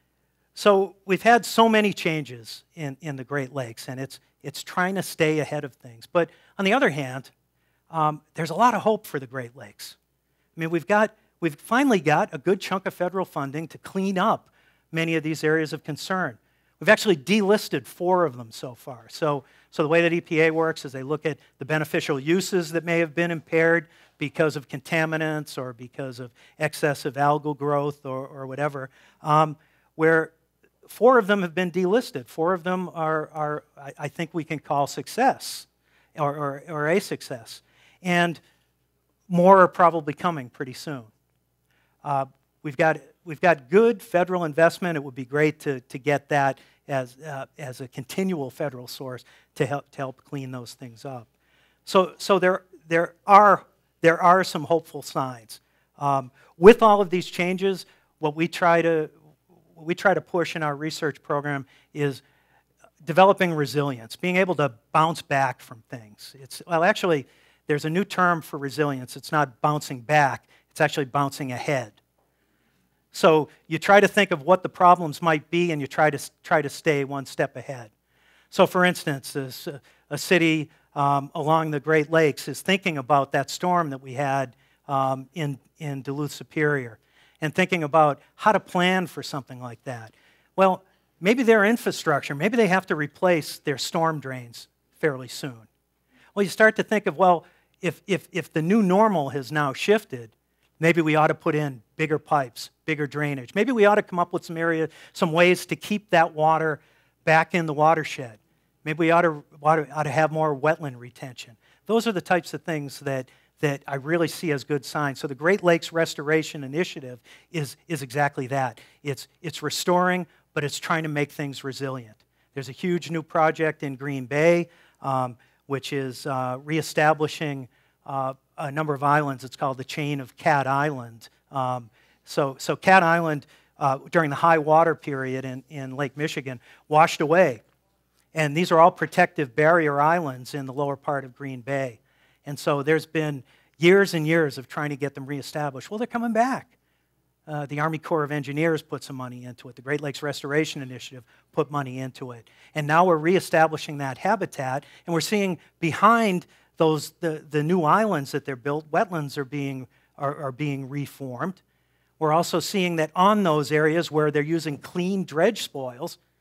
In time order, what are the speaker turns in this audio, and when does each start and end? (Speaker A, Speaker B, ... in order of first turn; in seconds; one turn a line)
Speaker A: 0.5-7.3
Speaker A: 7.9-10.0
Speaker A: 10.6-30.3
Speaker A: 30.8-38.4
Speaker A: 39.3-41.1
Speaker A: 42.0-51.3
Speaker A: 51.9-59.1
Speaker A: 59.7-62.2
Speaker A: 63.0-72.0
Speaker A: 73.1-77.9
Speaker A: 78.5-95.7
Speaker A: 96.3-137.6
Speaker A: 138.3-146.7
Speaker A: 147.5-161.6
Speaker A: 162.2-166.2